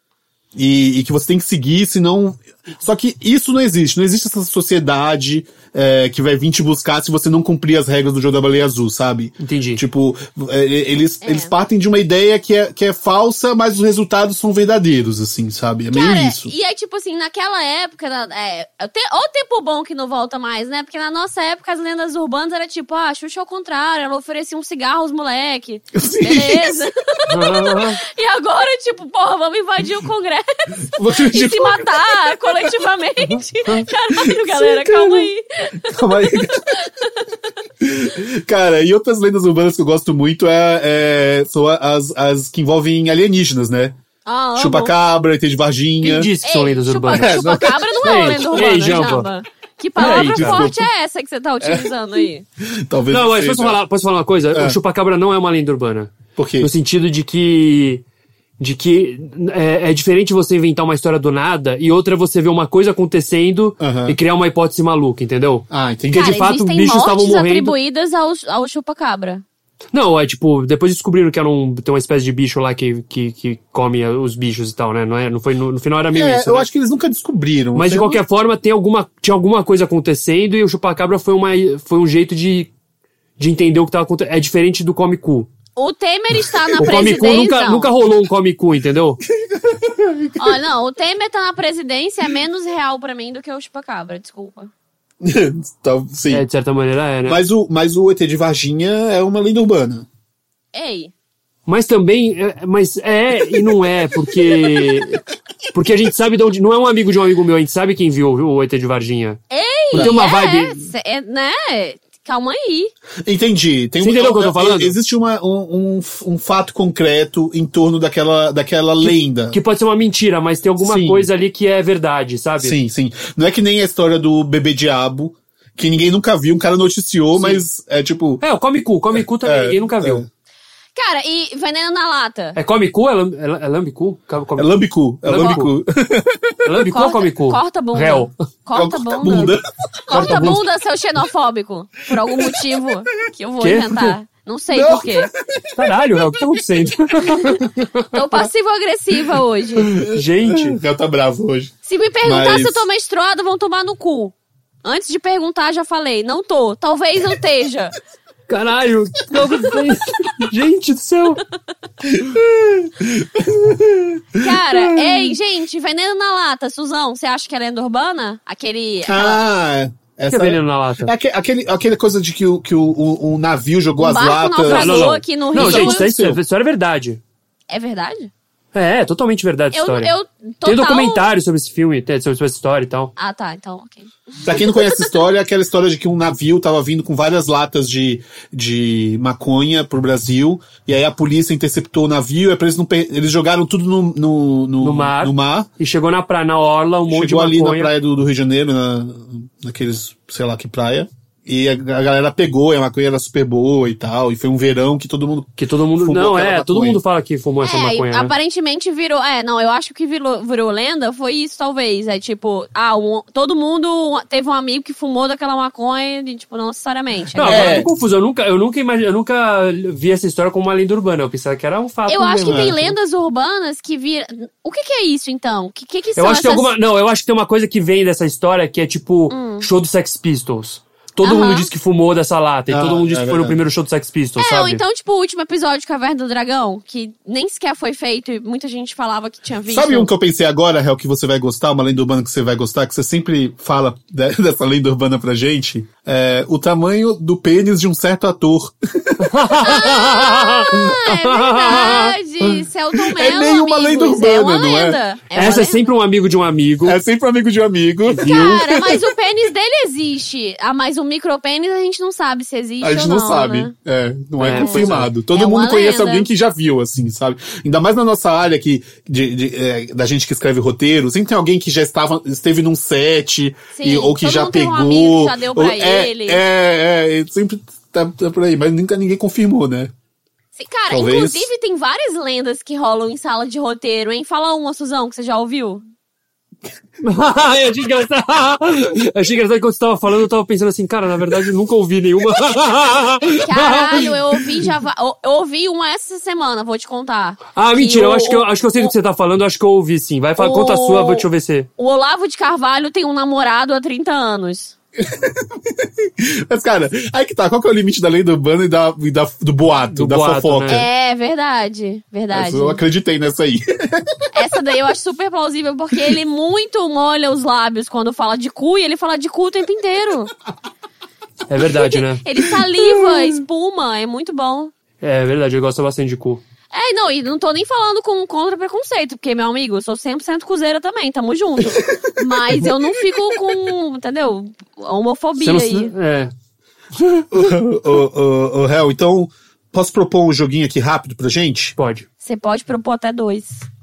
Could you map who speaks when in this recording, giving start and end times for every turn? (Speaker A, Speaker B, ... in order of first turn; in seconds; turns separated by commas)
Speaker A: 0.5-16.5, Speaker B: 9.4-9.8, Speaker C: 11.2-11.5, Speaker C: 15.9-35.9, Speaker A: 25.9-26.9, Speaker B: 27.3-28.0, Speaker A: 30.9-31.9, Speaker A: 34.2-35.3, Speaker A: 35.8-36.8, Speaker C: 36.7-37.2, Speaker A: 37.8-44.0, Speaker C: 44.2-44.9, Speaker A: 44.5-46.3, Speaker B: 46.0-47.4, Speaker C: 46.4-52.5, Speaker A: 47.1-47.9, Speaker B: 48.0-49.3, Speaker B: 50.0-50.6, Speaker A: 50.0-50.9, Speaker A: 51.6-51.9, Speaker A: 52.6-53.8, Speaker B: 53.1-58.0, Speaker A: 54.5-54.8, Speaker A: 56.4-56.7, Speaker B: 58.6-65.7, Speaker A: 63.8-64.2, Speaker A: 65.7-66.5, Speaker C: 66.1-69.4, Speaker B: 66.2-67.7, Speaker B: 69.9-76.7, Speaker A: 76.1-78.2, Speaker B: 77.7-82.7, Speaker B: 83.4-85.5, Speaker C: 85.8-87.9, Speaker B: 86.8-89.2, Speaker A: 89.3-90.5, Speaker C: 90.3-94.7, Speaker A: 95.2-96.4, Speaker B: 96.3-97.4, Speaker A: 97.2-100.1, Speaker C: 100.7-101.1, Speaker B: 101.7-105.2, Speaker A: 104.4-105.0, Speaker B: 105.7-109.4, Speaker C: 109.5-112.9, Speaker B: 109.9-110.8, Speaker A: 113.2-119.6, Speaker B: 114.0-115.0, Speaker B: 119.0-122.7, Speaker A: 120.8-121.3, Speaker A: 122.6-128.4, Speaker B: 127.3-127.6, Speaker B: 128.4-130.2, Speaker A: 129.1-130.3, Speaker C: 130.9-132.6, Speaker B: 132.5-135.7, Speaker A: 134.6-136.6, Speaker B: 136.6-138.3, Speaker C: 136.8-139.5, Speaker A: 138.7-140.6, Speaker C: 140.1-145.3, Speaker B: 140.1-140.6, Speaker A: 142.3-142.6, Speaker B: 143.6-144.1, Speaker A: 144.7-146.4, Speaker B: 145.7-148.1, Speaker C: 148.1-149.9, Speaker A: 149.8-151.7, Speaker B: 150.1-150.8, Speaker C: 151.8-157.9, Speaker A: 152.2-152.8, Speaker B: 158.5-161.4, Speaker A: 162.0-165.3, Speaker C: 164.4-169.4, Speaker A: 169.1-176.4, Speaker B: 170.3-171.1, Speaker C: 174.0-176.1, Speaker B: 174.7-177.2, Speaker C: 177.7-178.3, Speaker B: 178.7-183.1, Speaker C: 179.7-181.3, Speaker C: 183.2-185.1, Speaker A: 184.4-195.7, Speaker B: 194.8-197.9, Speaker A: 197.1-207.0, Speaker B: 205.6-208.3, Speaker C: 207.6-217.8, Speaker B: 217.4-222.9, Speaker A: 217.4-217.9, Speaker C: 222.1-226.7, Speaker A: 222.5-222.7, Speaker B: 226.2-234.8, Speaker C: 229.3-229.7, Speaker C: 231.2-231.7, Speaker A: 232.7-233.6, Speaker C: 234.4-240.1, Speaker A: 239.7-249.3, Speaker B: 249.2-252.1, Speaker C: 249.6-255.9, Speaker A: 252.4-255.0, Speaker B: 255.3-257.0, Speaker A: 256.8-259.1, Speaker B: 258.1-258.6, Speaker C: 258.2-263.7, Speaker A: 262.8-279.9, Speaker B: 264.4-265.1, Speaker C: 264.5-266.3, Speaker C: 273.7-276.4, Speaker C: 280.6-285.8, Speaker A: 280.9-281.5, Speaker B: 287.0-294.1, Speaker C: 293.3-298.9, Speaker B: 297.5-301.7, Speaker C: 300.4-301.2, Speaker C: 301.8-304.7, Speaker A: 305.0-310.9, Speaker B: 309.9-310.8, Speaker C: 310.7-312.8, Speaker A: 312.3-314.3, Speaker C: 314.3-320.3, Speaker B: 321.5-322.2, Speaker C: 322.2-324.7, Speaker A: 322.8-323.2, Speaker B: 325.0-326.4, Speaker C: 326.7-335.9, Speaker A: 331.6-332.6, Speaker B: 335.4-336.3, Speaker A: 337.3-341.7, Speaker B: 341.8-342.1, Speaker C: 342.2-343.6